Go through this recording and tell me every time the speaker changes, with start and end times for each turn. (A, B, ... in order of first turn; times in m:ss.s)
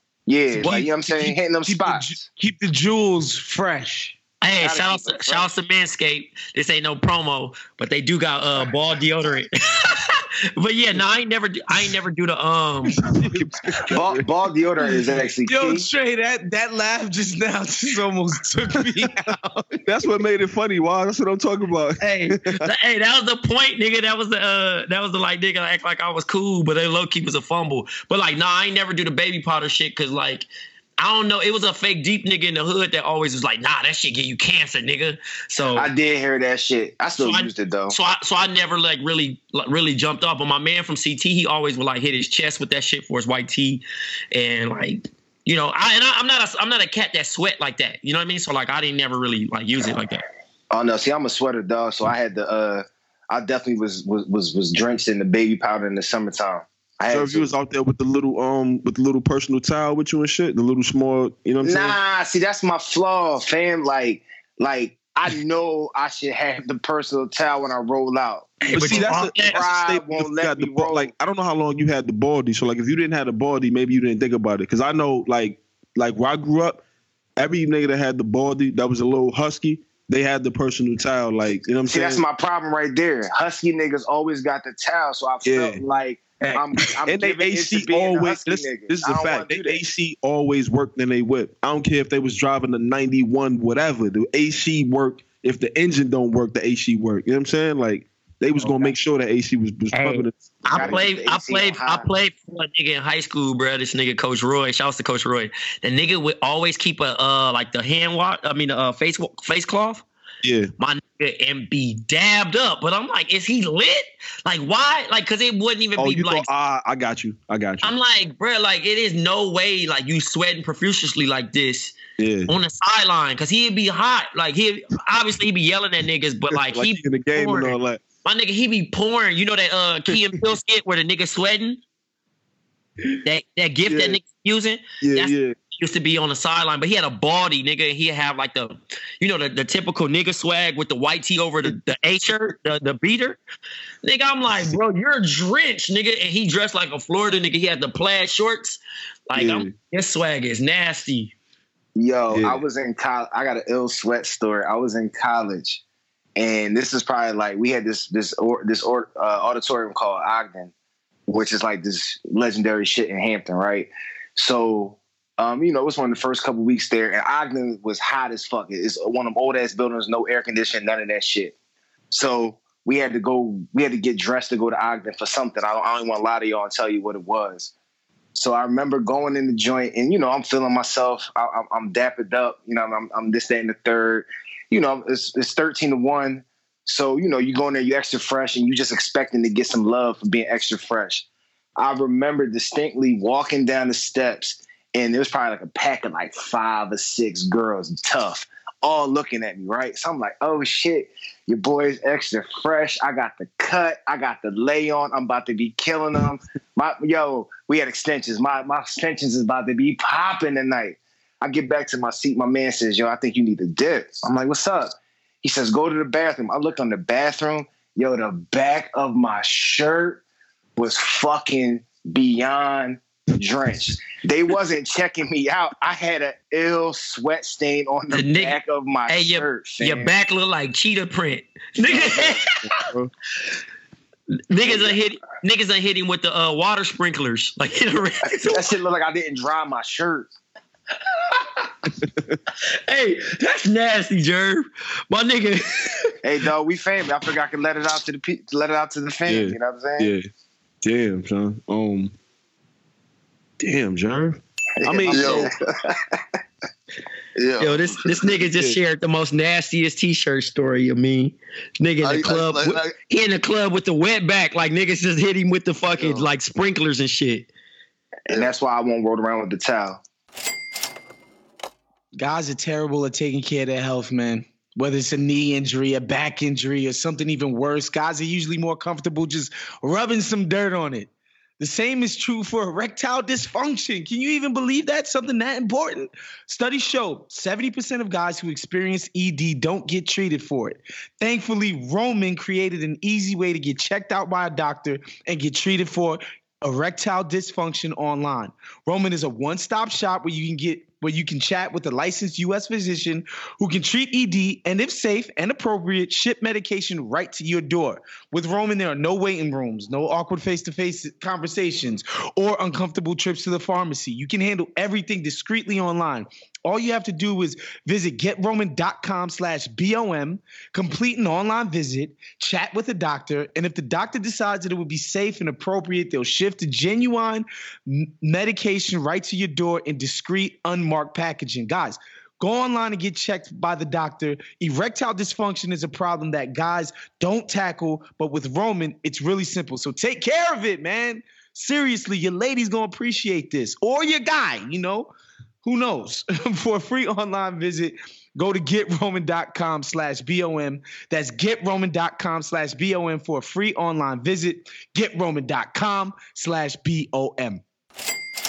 0:00.3-0:02.1 A
0:00.5-0:01.3 B
0:01.6-0:04.1 C
0:04.4-0:13.1 D
0:04.6-0:05.5 A
0:13.0-0:14.3 B
0:13.1-0:13.8 C
0:13.9-0:15.8 A
0:15.4-0:19.8 C
0:19.8-0:22.7 B
0:22.0-0:30.5 D
0:31.0-0:35.9 D
0:35.7-0:37.9 A
0:37.2-0:50.2 D
0:50.7-0:57.5 A
0:57.1-1:02.0 B
1:01.6-1:11.1 A
1:08.6-1:09.6 D
1:08.7-1:16.8 B
1:17.4-1:22.2 B
1:21.8-1:29.8 A
1:25.4-1:25.8 B
1:26.5-1:41.0 B
1:38.6-1:38.9 A
1:39.9-1:50.0 D
1:40.6-1:42.1 A
1:50.4-1:50.7 B
1:50.8-1:56.5 D
1:56.0-1:57.9 B
1:57.8-2:11.8 D
2:02.2-2:02.5 B
2:06.5-2:08.0 B
2:13.2-2:23.4 D
2:13.9-2:14.2 B
2:15.0-2:15.5 B
2:24.0-2:31.3 D
2:29.4-2:29.7 B
2:32.0-2:35.8 A
2:32.3-2:32.6 B
2:36.4-2:40.7 A
2:41.3-2:51.5 A
2:52.1-2:57.7 A
2:58.3-3:11.2 A
3:11.8-3:40.2 A
3:40.8-3:50.1 A
3:48.1-3:48.6 D
3:49.1-3:52.5 D
3:51.9-3:52.2 A
3:52.6-3:53.1 B
3:54.5-3:58.7 D
3:54.6-3:55.0 A
3:58.5-4:00.3 A
4:02.9-4:06.1 D
4:06.2-4:10.1 A
4:09.3-4:10.3 B
4:10.8-4:12.1 B
4:13.6-4:15.5 B
4:14.8-4:15.5 A
4:15.1-4:15.5 E
4:17.4-4:18.0 E
4:17.6-4:27.5 D
4:22.0-4:22.9 E
4:26.0-4:26.3 E
4:28.3-4:30.0 A
4:32.2-5:45.1 C
5:45.6-5:57.6 C